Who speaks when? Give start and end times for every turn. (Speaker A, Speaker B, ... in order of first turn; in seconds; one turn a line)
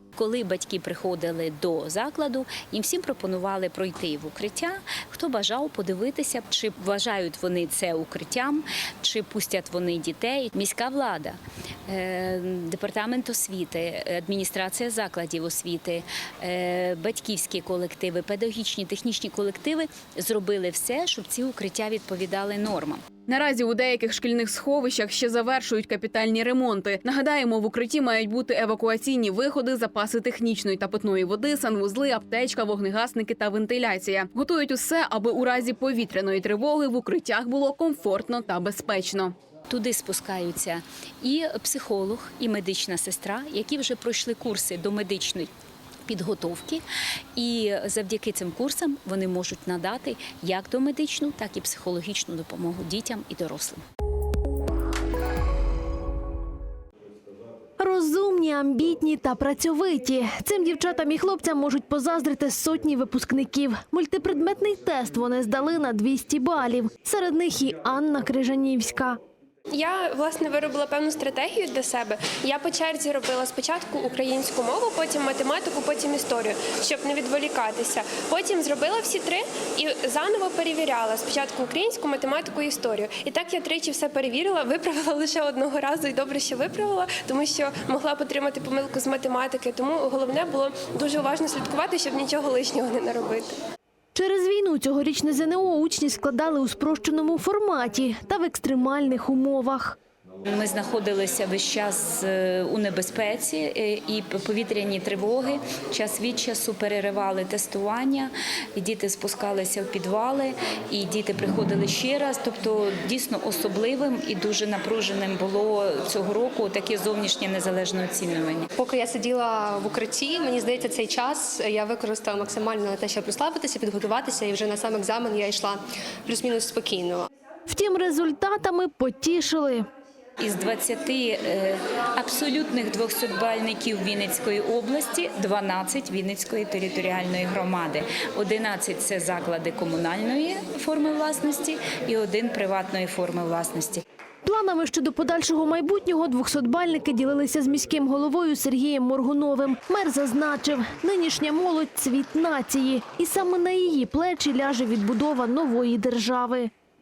Speaker A: 0.2-23.0
Speaker B: 23.3-39.3
Speaker A: 39.7-45.5
Speaker A: 46.0-46.8
Speaker A: 47.4-53.8
Speaker C: 57.8-69.2
Speaker D: 69.7-93.5
Speaker C: 94.1-100.0
Speaker A: 100.4-118.7
Speaker E: 118.8-127.2
Speaker C: 127.7-129.9
Speaker A: 130.4-144.0
Speaker C: 144.4-156.7